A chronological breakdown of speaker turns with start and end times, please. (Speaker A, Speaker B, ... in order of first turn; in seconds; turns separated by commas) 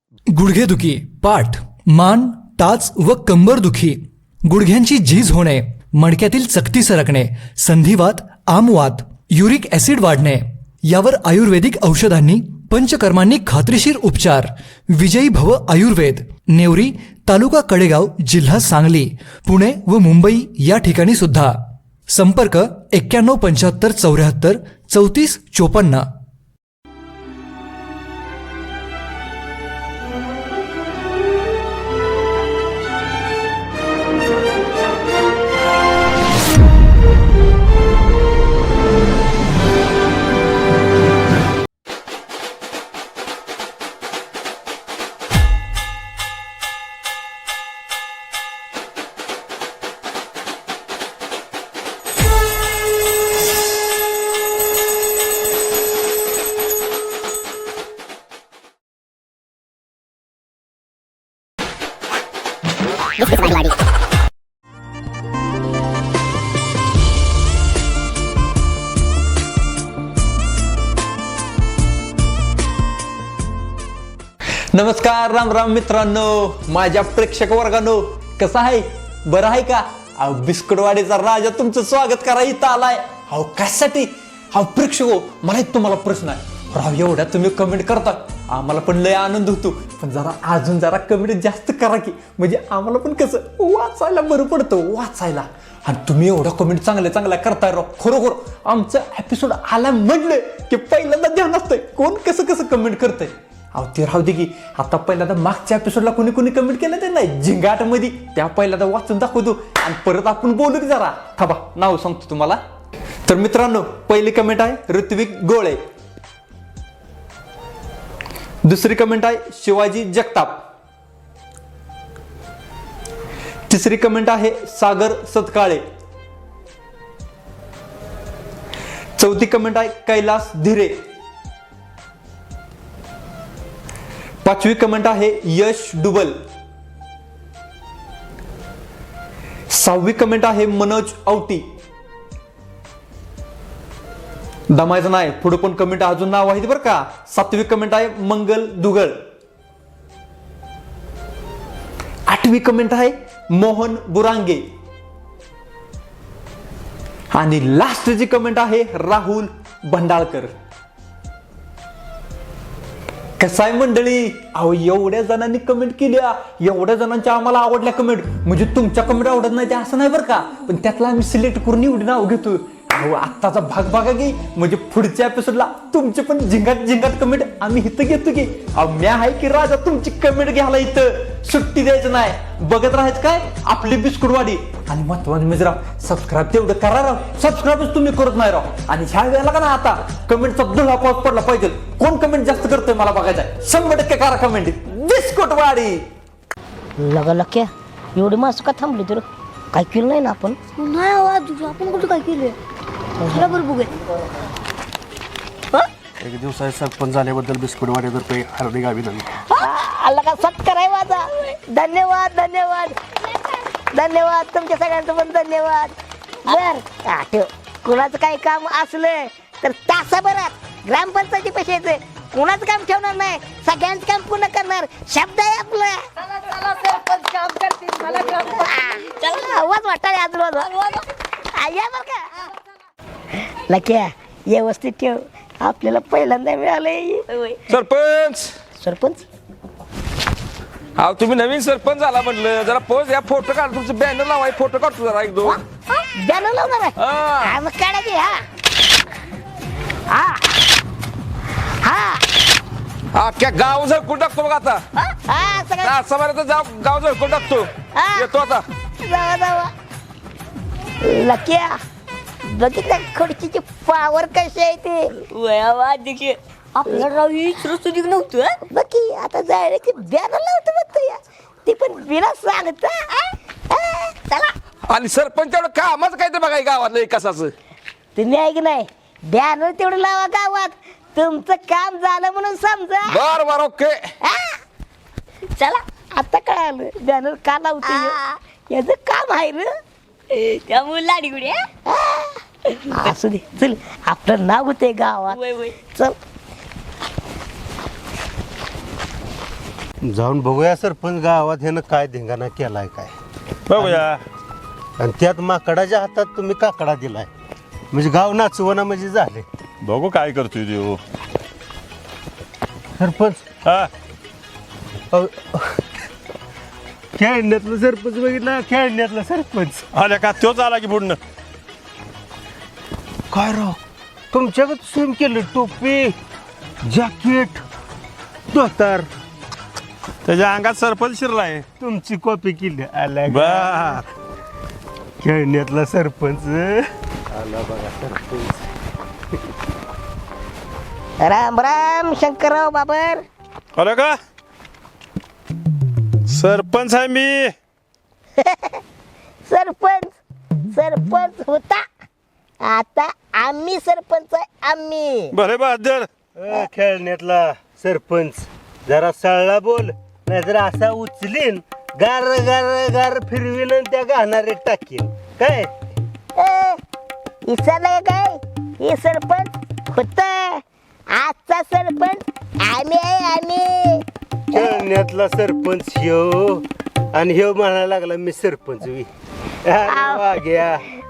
Speaker A: 0.3-21.6, Speaker A: 22.1-26.0, Speaker B: 63.2-63.7, Speaker C: 74.7-112.6, Speaker C: 113.2-115.8, Speaker C: 118.6-120.6, Speaker C: 123.7-125.8, Speaker C: 129.2-131.0, Speaker C: 134.4-136.4, Speaker C: 139.7-141.7, Speaker C: 144.7-149.2, Speaker C: 152.3-154.6, Speaker C: 157.3-160.5, Speaker C: 163.4-196.0, Speaker B: 197.0-200.6, Speaker D: 200.8-202.6, Speaker B: 203.2-203.5, Speaker D: 203.3-203.9, Speaker E: 206.2-209.2, Speaker B: 209.6-212.9, Speaker B: 213.9-215.9, Speaker B: 216.4-226.0, Speaker D: 226.5-228.6, Speaker B: 228.5-230.7, Speaker D: 229.2-229.6, Speaker D: 230.5-231.0, Speaker B: 231.5-232.3, Speaker B: 233.7-237.2, Speaker D: 237.3-237.6, Speaker F: 237.7-238.5, Speaker B: 238.8-239.2, Speaker F: 241.0-245.6, Speaker B: 246.2-248.4, Speaker F: 247.0-247.6, Speaker B: 250.1-250.5, Speaker B: 251.8-252.2, Speaker F: 253.1-254.8, Speaker B: 255.3-255.9, Speaker F: 255.8-258.6, Speaker B: 257.9-258.3, Speaker B: 259.0-259.7, Speaker B: 261.0-261.8, Speaker B: 262.4-265.1, Speaker D: 265.2-268.6, Speaker B: 268.7-273.1, Speaker B: 273.7-274.5, Speaker F: 274.9-277.5, Speaker B: 278.1-283.2, Speaker F: 283.1-284.0, Speaker B: 284.2-284.6, Speaker D: 285.6-285.8, Speaker B: 286.1-288.2, Speaker D: 287.8-288.3, Speaker B: 288.7-289.7, Speaker D: 290.3-291.6, Speaker B: 291.9-292.4, Speaker B: 292.9-295.4, Speaker D: 295.3-295.7, Speaker E: 300.0-303.1, Speaker G: 303.7-304.2, Speaker E: 303.8-304.0, Speaker E: 305.0-307.3, Speaker E: 307.9-309.4, Speaker G: 309.8-311.0, Speaker E: 313.0-313.4, Speaker G: 313.6-313.9, Speaker E: 315.1-315.8, Speaker E: 317.2-319.8, Speaker G: 319.9-321.2, Speaker E: 323.3-323.8, Speaker E: 324.3-326.1, Speaker E: 326.8-327.6, Speaker E: 328.5-329.1, Speaker G: 330.2-331.6, Speaker E: 331.8-334.0, Speaker G: 333.3-334.0, Speaker E: 335.2-338.6, Speaker B: 341.2-343.2, Speaker G: 343.8-344.2, Speaker G: 346.3-347.5, Speaker B: 348.4-348.8, Speaker B: 349.5-350.1, Speaker B: 350.7-351.9, Speaker B: 352.6-355.3, Speaker G: 355.3-356.1, Speaker E: 356.4-365.7, Speaker B: 366.4-366.8, Speaker B: 367.4-374.8, Speaker E: 374.5-376.6, Speaker E: 377.1-379.1, Speaker E: 379.6-380.8, Speaker B: 379.9-380.4